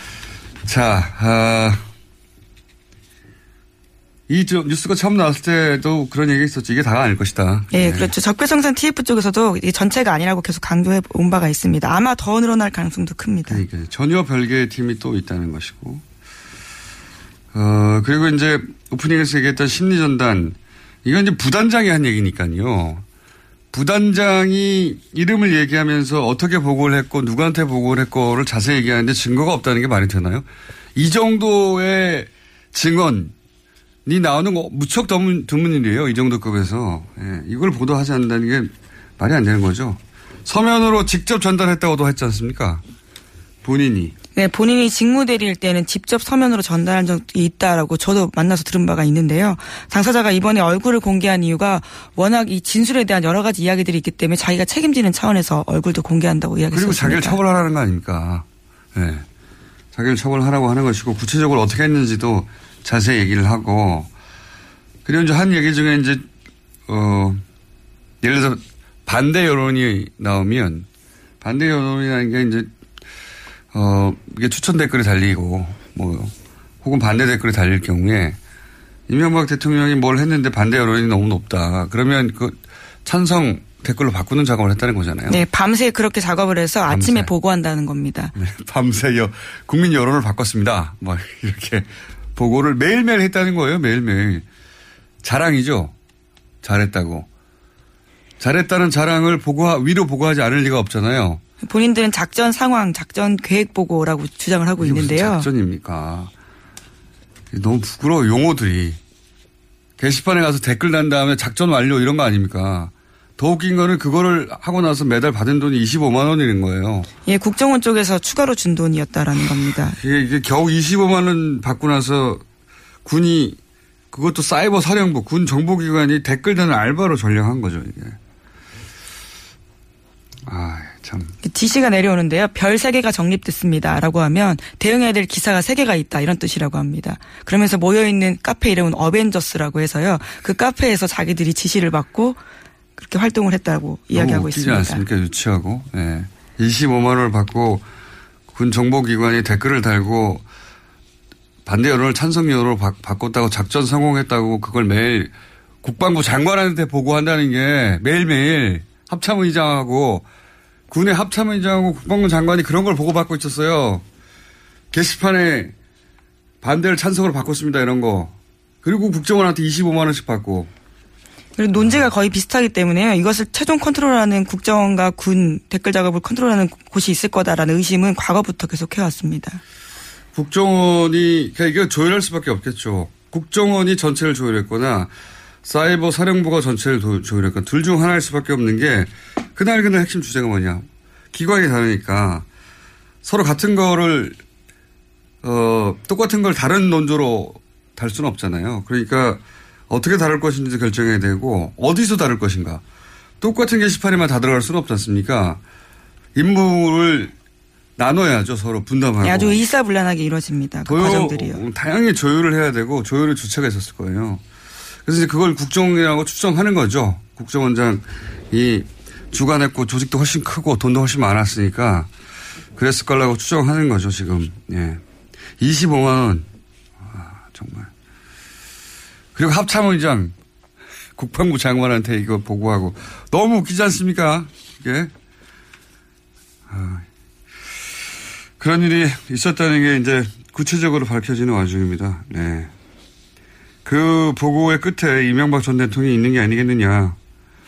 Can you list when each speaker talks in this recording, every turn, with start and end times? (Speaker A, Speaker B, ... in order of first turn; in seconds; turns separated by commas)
Speaker A: 0.6-1.9, Speaker A: 4.3-8.1, Speaker B: 7.7-13.6, Speaker A: 13.5-16.0, Speaker A: 17.5-23.0, Speaker A: 23.7-33.3, Speaker A: 34.0-42.8, Speaker A: 43.6-44.1, Speaker B: 44.3-57.4, Speaker A: 56.7-59.2, Speaker A: 59.9-64.1, Speaker A: 65.0-66.3, Speaker A: 66.9-67.4, Speaker A: 68.2-70.9, Speaker A: 71.4-72.7, Speaker A: 73.7-78.4, Speaker A: 79.1-85.4, Speaker B: 85.3-88.3, Speaker A: 86.9-87.3, Speaker A: 88.3-94.4, Speaker A: 95.2-95.9, Speaker A: 96.6-97.3, Speaker A: 98.4-101.4, Speaker B: 101.6-105.5, Speaker A: 104.8-106.3, Speaker A: 107.5-109.0, Speaker A: 110.0-117.1, Speaker B: 117.2-120.0, Speaker A: 119.9-122.4, Speaker A: 123.0-123.6, Speaker A: 124.1-128.2, Speaker A: 130.4-131.3, Speaker B: 131.4-142.4, Speaker B: 143.0-145.0, Speaker A: 144.1-147.8, Speaker A: 148.5-150.4, Speaker A: 151.6-160.2, Speaker A: 160.9-164.0, Speaker A: 164.9-165.7, Speaker A: 166.6-170.7, Speaker B: 171.6-179.6, Speaker A: 180.3-185.1, Speaker A: 185.6-192.4, Speaker A: 193.2-194.4, Speaker A: 195.4-202.8, Speaker A: 203.4-205.6, Speaker A: 206.3-207.3, Speaker A: 208.0-209.6, Speaker B: 209.2-211.6, Speaker A: 210.8-214.4, Speaker A: 215.1-222.1, Speaker A: 222.8-225.0, Speaker A: 225.6-226.5, Speaker A: 227.0-227.9, Speaker A: 229.3-230.3, Speaker A: 231.2-235.1, Speaker A: 236.7-237.1, Speaker A: 238.6-242.7, Speaker A: 243.8-247.2